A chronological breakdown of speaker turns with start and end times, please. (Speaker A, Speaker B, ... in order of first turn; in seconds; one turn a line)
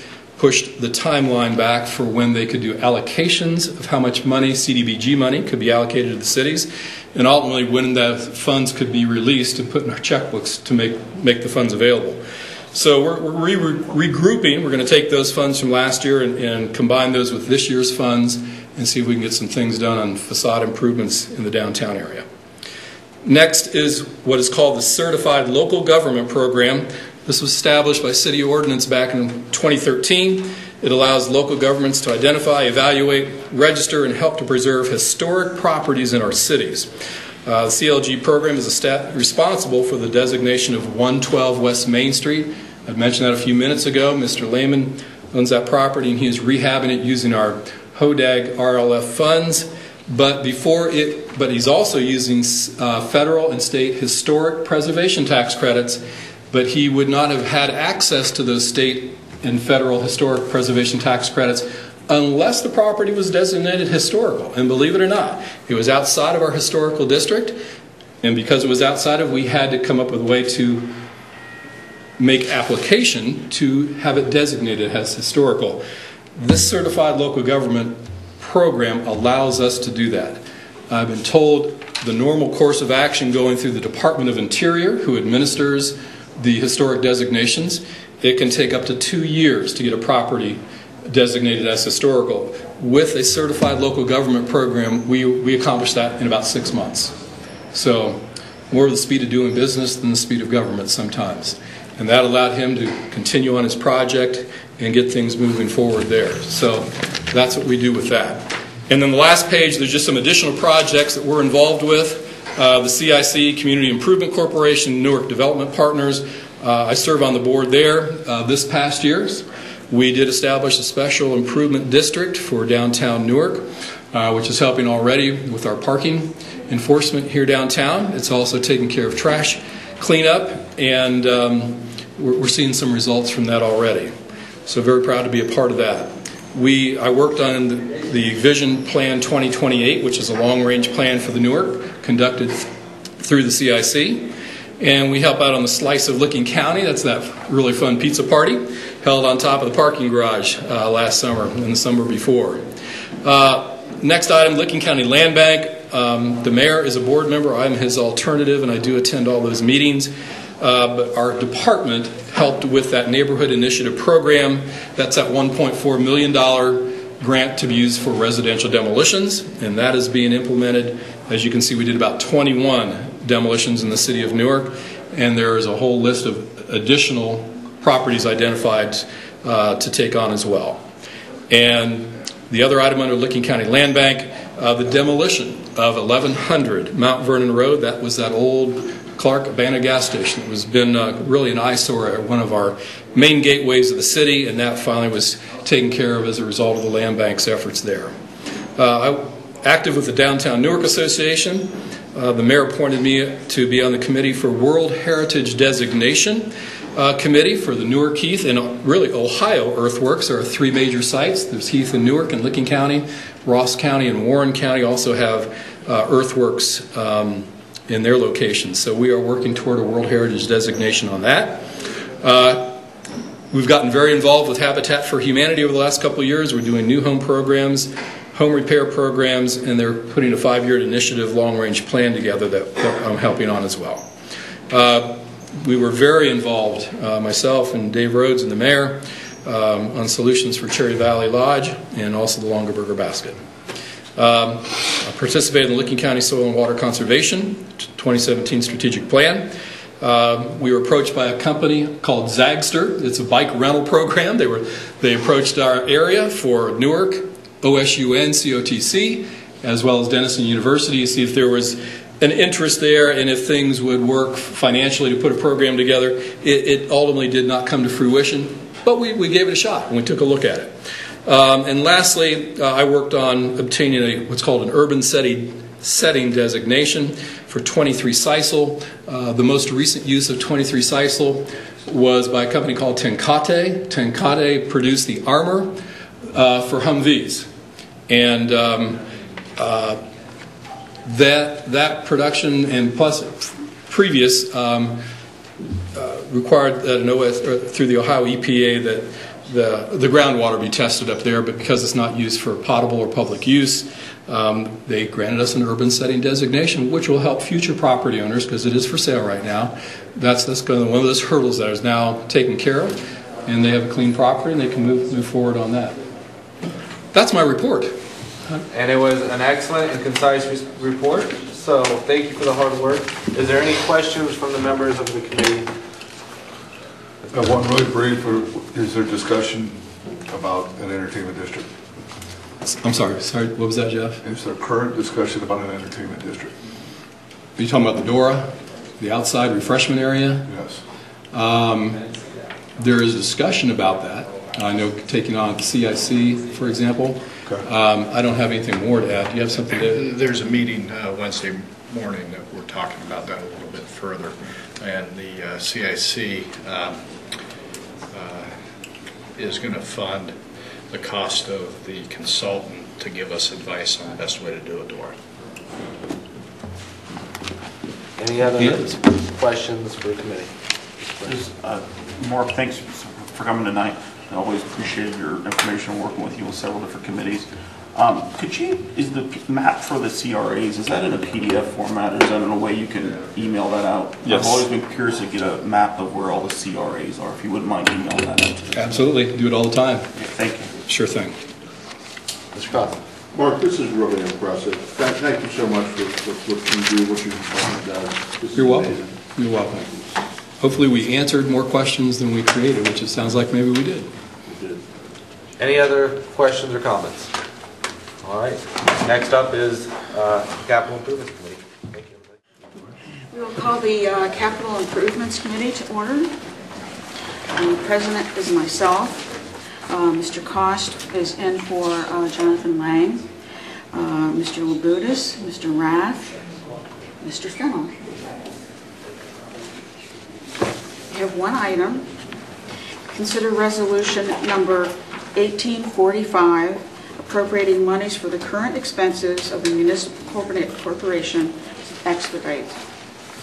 Speaker A: 0.4-22.2
Speaker A: 23.2-36.9
Speaker A: 37.4-67.6
Speaker A: 68.2-71.0
Speaker A: 72.2-75.8
Speaker A: 76.3-97.2
Speaker A: 97.7-134.1
Speaker A: 134.7-152.7
Speaker A: 153.2-180.8
Speaker A: 181.5-198.1
Speaker A: 198.8-222.8
Speaker A: 223.5-234.1
Speaker A: 234.7-243.4
Speaker A: 244.2-285.8
Speaker A: 286.3-287.5
Speaker A: 288.1-289.0
Speaker A: 289.5-290.0
Speaker A: 291.0-295.1
Speaker A: 295.9-316.0
Speaker A: 317.1-318.0
Speaker B: 318.7-325.7
Speaker C: 327.3-331.7
Speaker A: 332.6-334.2
Speaker C: 334.2-336.5
Speaker A: 337.6-340.5
Speaker C: 340.5-340.8
Speaker A: 341.3-342.0
Speaker A: 342.8-350.1
Speaker D: 349.8-357.0
Speaker D: 358.1-358.5
Speaker D: 359.4-360.3
Speaker D: 360.9-365.1
Speaker B: 368.2-370.5
Speaker E: 371.2-389.0
Speaker A: 384.2-384.6
Speaker A: 388.7-390.1
Speaker E: 390.1-390.8
Speaker A: 390.9-391.4
Speaker F: 392.5-399.1
Speaker A: 398.5-399.9
Speaker A: 400.6-404.1
Speaker F: 404.5-404.8
Speaker B: 405.6-407.3
Speaker B: 408.2-412.2
Speaker G: 413.3-416.3
Speaker G: 417.5-419.4
Speaker G: 419.9-423.2
Speaker G: 423.9-426.4
Speaker G: 427.2-427.9
Speaker G: 431.1-432.1
Speaker G: 433.1-442.7